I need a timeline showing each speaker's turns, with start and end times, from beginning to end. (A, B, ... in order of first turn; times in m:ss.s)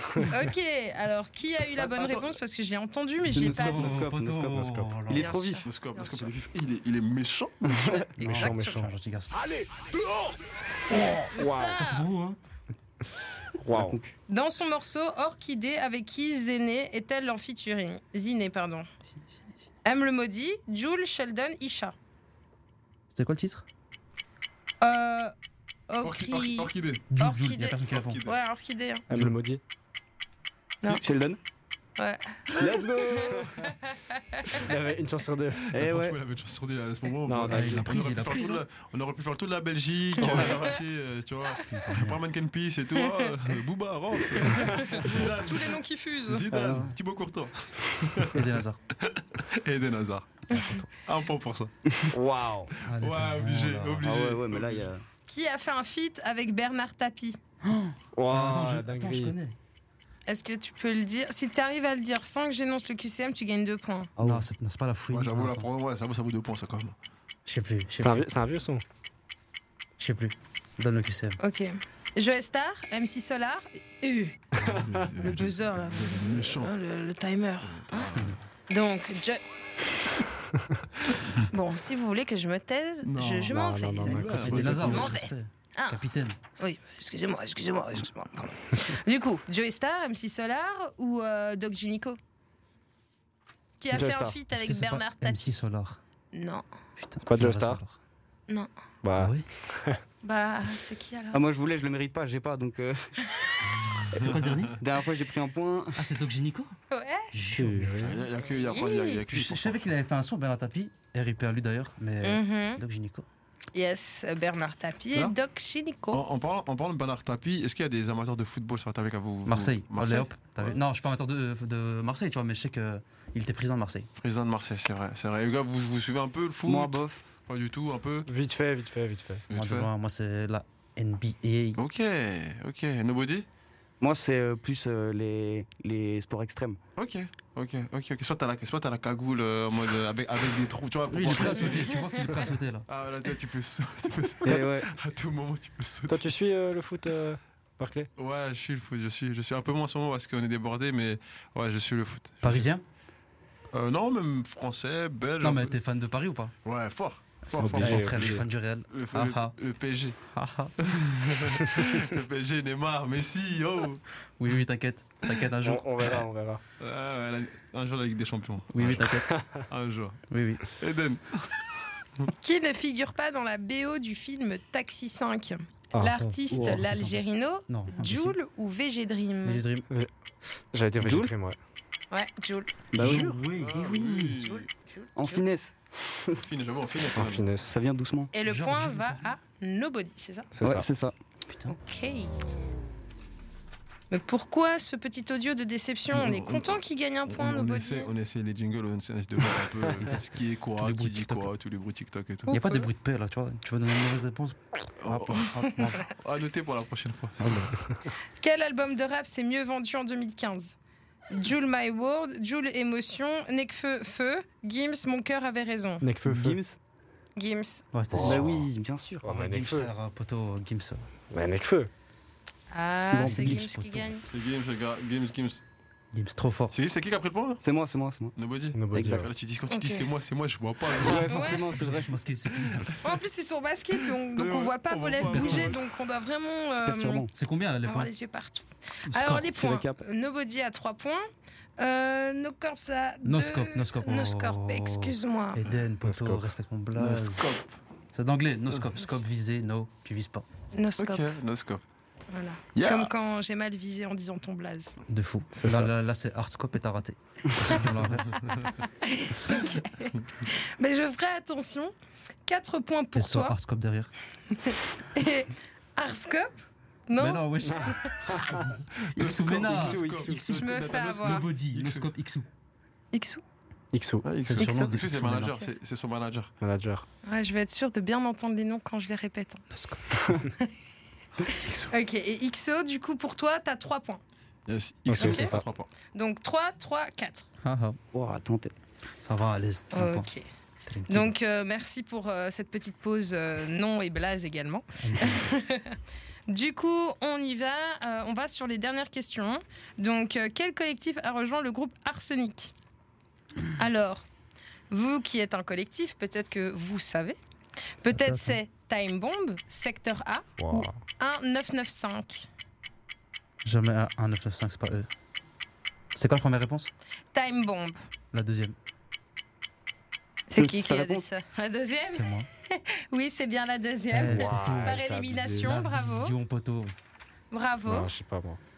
0:00.2-0:04.0 A
0:01.8-0:02.3 B
0:03.2-0:05.7 C
0:03.3-0:05.3 D
0:05.1-0:06.3 A
0:05.6-0:08.0 B
0:07.6-0:08.1 C
0:08.2-0:08.9 E
0:08.2-0:09.4 D
0:08.2-0:08.9 A
0:10.9-0:12.1 A
0:10.9-0:12.4 D
0:11.3-0:11.8 E
0:13.6-0:14.0 E
0:13.7-0:14.1 C
0:14.3-0:18.9 A
0:19.1-0:19.4 D
0:19.8-0:21.9 A
0:23.1-0:23.6 D
0:24.8-0:25.3 A
0:25.9-0:29.1 A
0:26.0-0:27.0 B
0:27.1-0:28.2 D
0:27.9-0:28.4 B
0:29.1-0:29.6 E
0:30.8-0:31.4 C
0:32.0-0:34.7 A
0:32.5-0:33.7 C
0:34.5-0:35.7 E
0:35.7-0:36.2 C
0:35.7-0:50.4 B
0:37.2-0:37.9 E
0:37.5-0:38.6 D
0:40.2-0:40.7 A
0:41.7-0:42.2 D
0:43.0-0:43.3 A
0:44.4-0:46.5 A
0:46.5-0:46.9 C
0:48.3-0:48.8 D
0:50.5-0:50.9 D
0:50.5-0:50.8 A
0:51.0-0:51.7 B
0:52.1-0:52.7 E
0:52.8-0:54.1 D
0:52.9-0:54.9 B
0:54.0-0:55.0 C
0:55.3-0:57.4 A
0:57.6-0:59.6 D
0:58.2-0:59.3 E
1:00.3-1:04.1 A
1:04.2-1:04.4 C
1:04.2-1:05.7 D
1:05.1-1:07.0 B
1:07.4-1:08.3 D
1:08.0-1:08.8 E
1:10.0-1:11.4 D
1:11.4-1:14.5 A
1:14.6-1:16.7 B
1:14.6-1:15.0 E
1:15.1-1:18.1 A
1:17.7-1:18.4 B
1:18.7-1:19.4 A
1:21.4-1:26.0 A
1:23.0-1:25.2 B
1:23.5-1:25.0 E
1:24.4-1:26.4 D
1:26.6-1:32.2 A
1:33.8-1:35.6 A
1:33.9-1:34.4 E
1:34.5-1:36.0 D
1:36.3-1:36.6 A
1:37.0-1:38.0 D
1:37.2-1:37.8 E
1:39.0-1:40.0 E
1:39.1-1:39.4 D
1:40.2-1:41.4 A
1:41.3-1:46.0 C
1:43.8-1:44.7 B
1:44.1-1:44.8 D
1:45.9-1:46.7 D
1:46.9-1:47.3 A
1:47.3-1:48.2 D
1:47.5-1:48.1 E
1:48.0-1:49.9 B
1:48.7-1:49.2 A
1:49.3-1:53.2 D
1:52.2-1:52.8 A
1:53.7-1:56.2 A
1:56.1-2:00.8 B
1:59.4-2:04.1 D
2:04.2-2:08.3 B
2:06.7-2:07.2 C
2:08.3-2:09.4 E
2:09.5-2:09.9 B
2:09.5-2:11.8 D
2:11.8-2:13.4 B
2:14.0-2:16.8 C
2:17.0-2:22.0 B
2:21.1-2:22.8 D
2:22.9-2:26.3 B
2:24.4-2:24.9 C
2:26.1-2:28.1 E
2:28.2-2:32.7 B
2:32.4-2:32.8 D
2:33.7-2:35.8 B
2:35.4-2:36.5 D
2:36.6-2:40.2 B
2:37.5-2:39.5 D
2:37.5-2:38.4 E
2:40.3-2:40.7 D
2:40.8-2:44.0 B
2:44.4-2:46.2 D
2:45.6-2:46.6 E
2:46.8-2:50.2 B
2:48.7-2:49.3 D
2:49.3-2:49.6 E
2:50.3-2:50.6 D
2:50.8-2:51.6 B
2:52.4-2:59.6 A
2:56.0-2:58.4 D
2:56.5-2:56.8 C
2:59.4-2:59.9 D
3:00.7-3:01.6 E
3:01.0-3:01.3 C
3:02.1-3:02.7 A
3:02.9-3:03.4 C
3:02.9-3:04.5 D
3:03.0-3:04.6 B
3:04.4-3:05.4 A
3:05.2-3:06.4 C
3:06.4-3:07.5 B
3:07.2-3:07.7 E
3:07.6-3:08.3 C
3:08.3-3:10.5 A
3:08.4-3:09.3 D
3:10.6-3:10.9 E
3:10.6-3:11.2 C
3:11.5-3:11.8 D
3:11.7-3:12.3 A
3:14.1-3:18.1 A
3:16.1-3:22.5 B
3:20.0-3:21.5 D
3:22.5-3:22.9 A
3:22.5-3:26.1 D
3:25.0-3:27.7 B
3:28.4-3:30.8 A
3:31.3-3:36.0 A
3:36.0-3:36.6 E
3:36.2-3:36.8 C
3:37.4-3:37.8 A
3:37.9-3:38.7 D
3:38.1-3:38.6 E
3:38.2-3:39.4 C
3:39.2-3:39.9 E
3:39.3-3:41.1 D
3:41.3-3:41.9 E
3:42.7-3:44.2 A
3:43.1-3:43.6 C
3:43.2-3:44.2 D
3:44.3-3:45.6 B
3:46.1-3:46.8 D
3:46.7-3:47.6 B
3:47.6-3:48.4 C
3:48.4-3:51.4 B
3:48.7-3:49.3 E
3:48.9-3:49.3 C
3:49.7-3:50.1 A
3:50.9-3:52.1 C
3:51.3-3:51.6 A
3:51.4-3:52.9 D
3:52.5-3:53.0 B
3:53.0-3:57.3 A
3:54.3-3:55.8 B
3:55.2-3:55.8 D
3:56.7-3:57.3 C
3:57.3-3:58.1 D
3:57.8-4:01.2 A
3:59.1-4:00.0 C
4:01.8-4:05.6 A
4:03.2-4:07.5 D
4:06.0-4:06.4 E
4:06.9-4:07.8 B
4:08.1-4:10.4 D
4:10.7-4:11.3 A
4:11.0-4:11.8 B
4:12.3-4:15.0 A
4:12.8-4:13.1 B
4:15.1-4:18.4 D
4:15.5-4:15.9 E
4:18.5-4:21.9 A
4:22.4-4:23.6 A
4:23.1-4:24.1 D
4:24.5-4:26.5 A
4:27.1-4:28.0 A
4:27.2-4:28.0 D
4:27.7-4:28.6 E
4:29.0-4:32.1 B
4:29.2-4:32.5 D
4:29.7-4:30.5 E
4:30.4-4:31.5 A
4:33.1-4:33.4 A
4:33.9-4:34.5 E
4:34.2-4:36.5 B
4:34.5-4:35.6 D
4:34.6-4:34.9 A
4:36.6-4:37.0 E
4:37.2-4:39.6 A
4:39.7-4:40.4 D
4:41.5-4:44.2 A
4:41.5-4:41.9 B
4:44.7-4:45.9 B
4:45.1-4:45.6 E
4:45.2-4:45.6 A
4:46.1-4:47.5 A
4:47.6-4:48.0 D
4:48.1-4:48.7 C
4:49.2-4:50.3 D
4:49.9-4:50.4 A
4:50.8-4:51.3 D
4:51.1-4:56.0 A
4:55.0-4:55.5 D
4:56.5-5:02.7 A
5:03.8-5:04.2 A
5:04.9-5:07.4 A
5:08.0-5:12.5 A
5:08.0-5:08.6 D
5:10.6-5:11.0 E
5:13.6-5:15.1 D
5:16.1-5:16.9 D
5:17.3-5:18.0 A
5:18.3-5:18.7 D
5:20.5-5:26.4 A
5:20.5-5:21.3 C
5:22.0-5:22.5 D
5:24.1-5:25.0 D
5:24.2-5:25.8 E
5:25.6-5:26.9 D
5:27.5-5:28.1 A
5:27.8-5:28.6 E